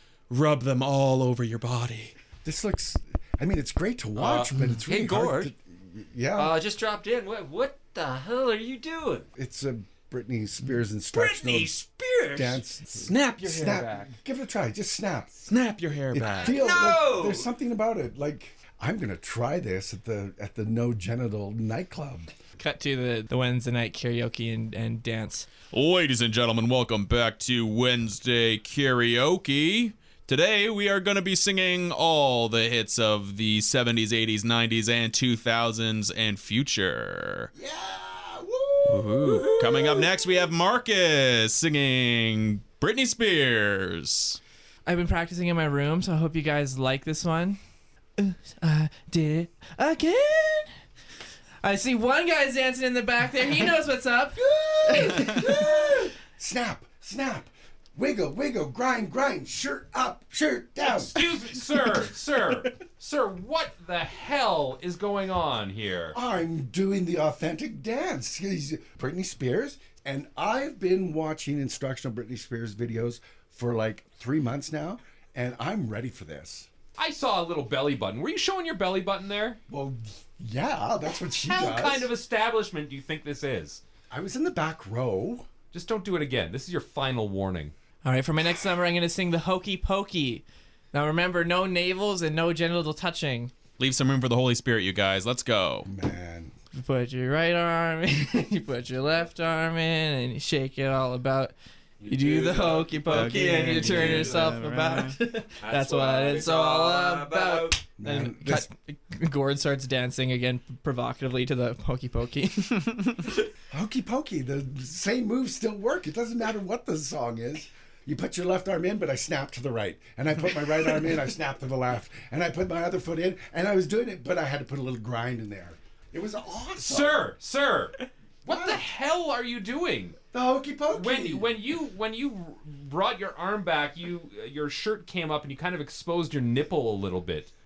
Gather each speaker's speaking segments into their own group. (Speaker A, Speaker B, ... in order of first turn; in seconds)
Speaker A: 0.3-2.1, 12.9-14.1, 15.5-16.7, 25.7-37.5, 38.9-44.4, 93.8-95.9, 103.1-105.2
Speaker B: 2.4-6.6, 9.3-11.8, 12.3-15.6, 16.1-22.3, 54.4-61.4, 66.1-76.7, 79.7-82.1, 84.1-85.5, 95.8-96.5, 108.0-108.7, 113.7-127.3, 128.5-128.8, 130.3-131.5
Speaker C: 4.2-5.5, 6.3-9.3, 11.1-12.6, 16.4-17.5, 37.6-40.4, 102.0-104.5, 105.6-107.9
Speaker D: 22.6-25.5, 44.9-47.6, 48.2-50.7, 51.6-55.6, 88.0-93.5, 96.7-113.3
Speaker E: 60.9-66.2, 77.0-79.6, 81.4-83.8, 85.7-87.7, 126.8-130.2, 130.9-137.5